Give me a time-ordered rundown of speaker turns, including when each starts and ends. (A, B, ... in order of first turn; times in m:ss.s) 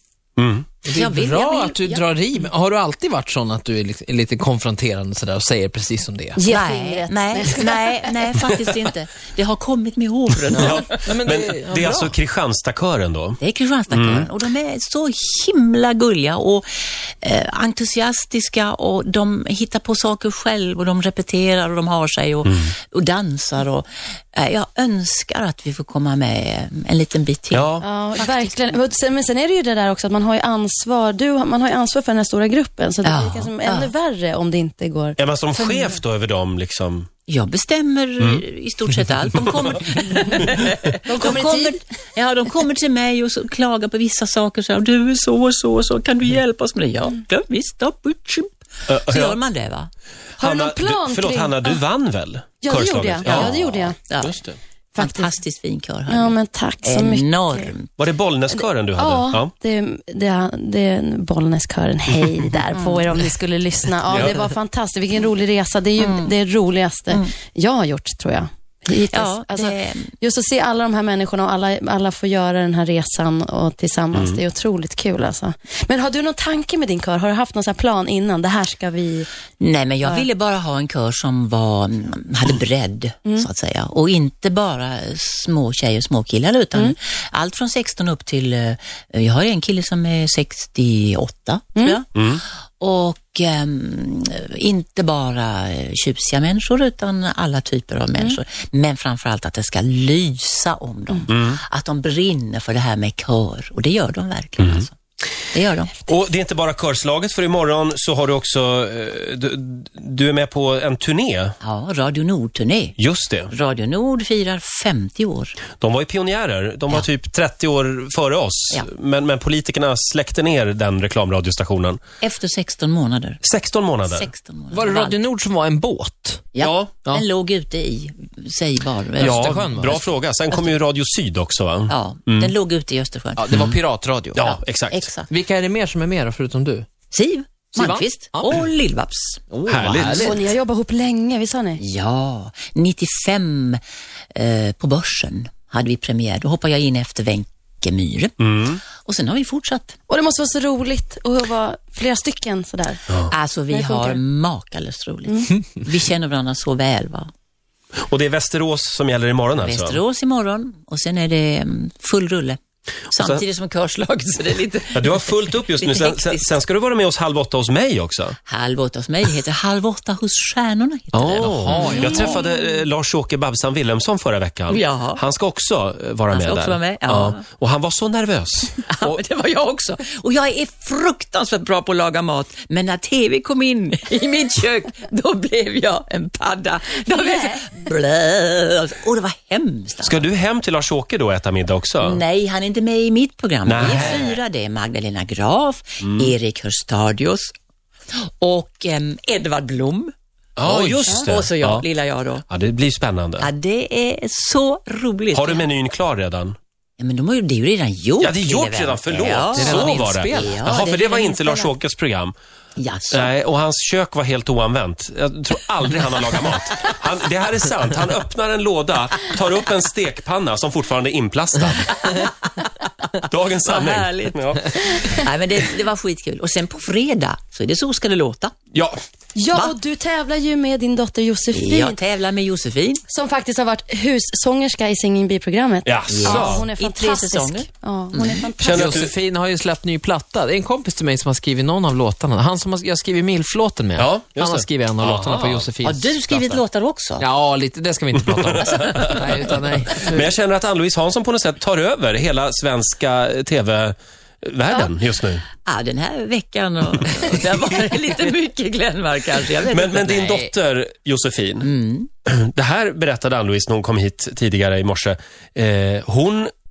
0:00.4-0:00.7 A
0:00.8-0:06.4 B
0:00.9-0:02.0 C
0:06.4-0:08.1 D
0:06.4-0:10.9 C
0:10.5-0:13.4 A
0:10.6-0:12.1 B
0:13.4-0:28.8 C
0:13.9-0:14.3 A
0:22.4-0:22.7 A
0:27.5-0:27.8 A
0:27.8-0:35.2 D
0:33.0-0:33.9 C
0:35.2-0:37.1 A
0:35.6-0:36.0 C
0:37.3-0:49.9 C
0:41.1-0:41.8 D
0:48.9-0:49.4 A
0:50.4-0:51.8 D
0:50.4-0:54.6 A
0:52.6-0:54.0 D
0:53.2-0:54.3 C
0:54.9-0:55.3 D
0:55.0-0:57.9 C
0:56.1-0:57.7 D
0:58.0-0:59.5 A
0:58.5-1:19.3 D
1:02.7-1:03.0 C
1:06.0-1:06.3 C
1:09.1-1:10.1 C
1:19.6-1:32.1 C
1:32.1-1:32.4 A
1:32.8-1:44.9 C
1:41.3-1:41.6 A
1:44.6-1:44.8 A
1:45.5-1:46.1 C
1:46.1-1:51.6 A
1:51.6-1:53.0 C
1:53.0-1:53.5 A
1:53.5-1:55.6 C
1:55.8-2:02.0 A
2:02.2-2:03.4 C
2:03.4-2:04.3 A
2:04.0-2:05.2 C
2:04.7-2:06.4 B
2:06.5-2:10.7 C
2:06.6-2:06.9 A
2:09.2-2:10.0 B
2:09.2-2:12.5 A
2:11.9-2:13.4 C
2:13.4-2:14.4 B
2:14.3-2:15.0 A
2:14.4-2:15.3 C
2:15.3-2:16.9 B
2:17.1-2:19.4 C
2:17.7-2:18.6 B
2:19.5-2:20.4 B
2:19.7-2:20.4 A
2:20.2-2:21.8 D
2:21.8-2:23.8 C
2:24.3-2:28.4 C
2:28.4-2:28.8 A
2:28.9-2:30.0 C
2:30.1-2:33.0 D
2:33.3-2:37.3 C
2:33.7-2:34.2 D
2:38.1-2:40.0 A
2:39.6-2:42.6 C
2:43.1-2:46.6 C
2:43.2-2:43.4 A
2:44.9-2:48.4 A
2:48.5-2:52.4 C
2:51.1-2:59.2 A
2:51.4-2:52.3 B
2:51.9-2:52.4 D
2:54.7-2:55.2 C
2:56.3-2:57.4 C
2:58.9-3:10.3 C
3:10.0-3:12.2 A
3:12.0-3:17.5 C
3:13.6-3:14.4 A
3:16.0-3:16.3 A
3:18.1-3:22.4 C
3:20.6-3:21.8 A
3:22.5-3:23.5 A
3:23.4-3:25.6 C
3:25.3-3:26.6 A
3:27.0-3:31.7 C
3:28.2-3:32.3 A
3:29.5-3:30.5 B
3:32.8-3:33.3 C
3:33.1-3:41.9 A
3:41.9-3:42.6 C
3:43.2-3:44.9 A
3:43.6-3:48.5 C
3:48.7-3:49.0 A
3:49.3-3:52.0 D
3:51.5-3:53.0 C
3:53.1-3:58.8 D
3:55.8-3:56.7 A
3:56.1-3:58.5 C
3:58.6-3:59.1 A
3:58.6-4:06.6 B
4:04.0-4:05.7 A
4:05.8-4:07.2 C
4:07.2-4:10.3 B
4:08.3-4:15.4 A
4:08.8-4:09.2 C
4:15.6-4:20.2 C
4:19.7-4:21.7 A
4:20.1-4:20.5 B
4:21.6-4:22.1 C
4:22.2-4:26.5 A